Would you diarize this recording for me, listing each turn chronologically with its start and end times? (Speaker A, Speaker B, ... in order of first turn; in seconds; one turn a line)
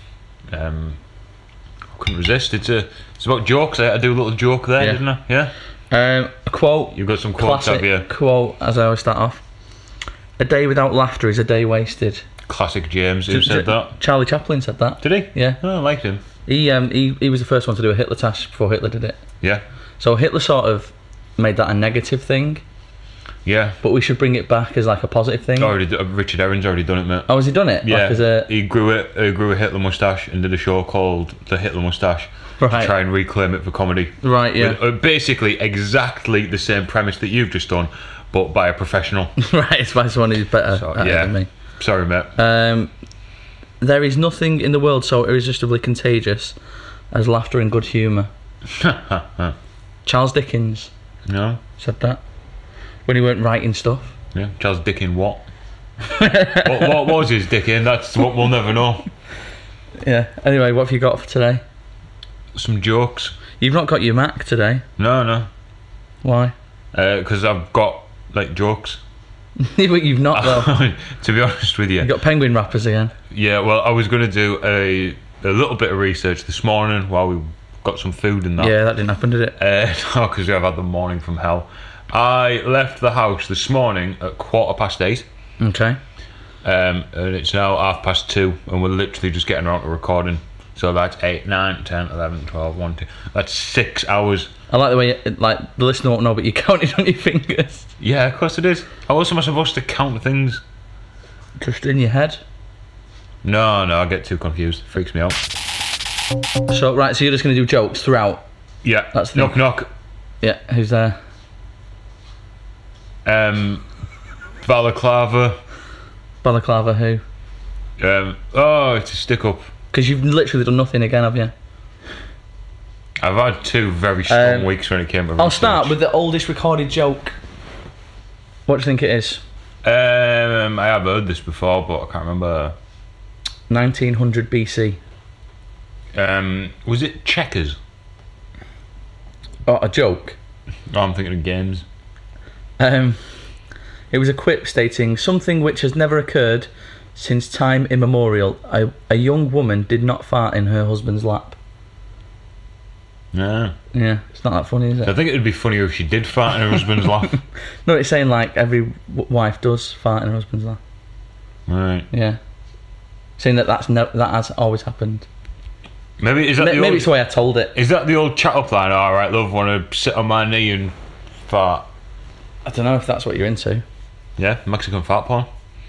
Speaker A: 0.5-1.0
Speaker A: 1.9-5.5
Speaker B: 5.9-9.4
Speaker A: 6.9-8.1
Speaker B: 10.4-12.2
Speaker A: 12.4-13.9
Speaker B: 13.3-15.6
Speaker A: 15.0-16.2
Speaker B: 16.4-19.2
Speaker B: 20.0-22.6
Speaker A: 23.4-23.8
Speaker B: 23.8-25.7
Speaker A: 25.6-27.3
Speaker B: 27.3-28.5
Speaker A: 27.8-39.3
Speaker B: 32.6-32.9
Speaker B: 34.2-34.8
Speaker B: 39.4-41.5
Speaker A: 40.7-42.3
Speaker B: 42.4-42.9
Speaker B: 43.8-46.5
Speaker B: 47.1-48.3
Speaker A: 48.7-49.5
Speaker B: 50.0-50.9
Speaker A: 51.2-51.6
Speaker B: 51.8-52.2
Speaker B: 53.1-54.1
Speaker A: 54.3-55.5
Speaker B: 56.0-57.1
Speaker A: 56.5-59.1
Speaker B: 60.0-61.6
Speaker A: 62.5-63.4
Speaker B: 63.6-64.8
Speaker A: 65.0-65.5
Speaker B: 66.2-66.5
Speaker A: 66.9-69.0
Speaker B: 69.6-70.7
Speaker A: 70.3-72.1
Speaker B: 72.0-73.1
Speaker A: 73.3-78.8
Speaker B: 78.6-79.5
Speaker A: 79.6-85.2
Speaker B: 85.6-86.0
Speaker A: 86.6-94.5
Speaker B: 94.7-97.9
Speaker A: 98.0-100.6
Speaker B: 101.6-102.4
Speaker A: 103.4-105.4
Speaker B: 106.7-108.4
Speaker A: 108.8-109.9
Speaker B: 109.1-109.6
Speaker B: 110.4-111.2
Speaker A: 113.2-113.8
Speaker A: 114.6-115.6
Speaker B: 116.4-117.2
Speaker A: 118.0-119.7
Speaker B: 119.9-121.5
Speaker A: 123.2-126.0
Speaker B: 124.3-124.7
Speaker B: 125.4-127.4
Speaker B: 128.7-129.4
Speaker A: 129.8-132.8
Speaker B: 133.7-135.0
Speaker A: 136.1-137.8
Speaker B: 139.7-140.4
Speaker A: 140.9-141.8
Speaker B: 142.8-143.2
Speaker B: 144.1-151.6
Speaker A: 153.3-153.7
Speaker B: 153.9-155.1
Speaker A: 155.0-157.4
Speaker B: 157.8-160.8
Speaker A: 161.7-162.1
Speaker B: 162.1-162.4
Speaker B: 163.4-165.2
Speaker A: 166.2-167.1
Speaker B: 166.6-167.7
Speaker A: 167.7-171.9
Speaker B: 172.6-173.8
Speaker A: 174.4-175.5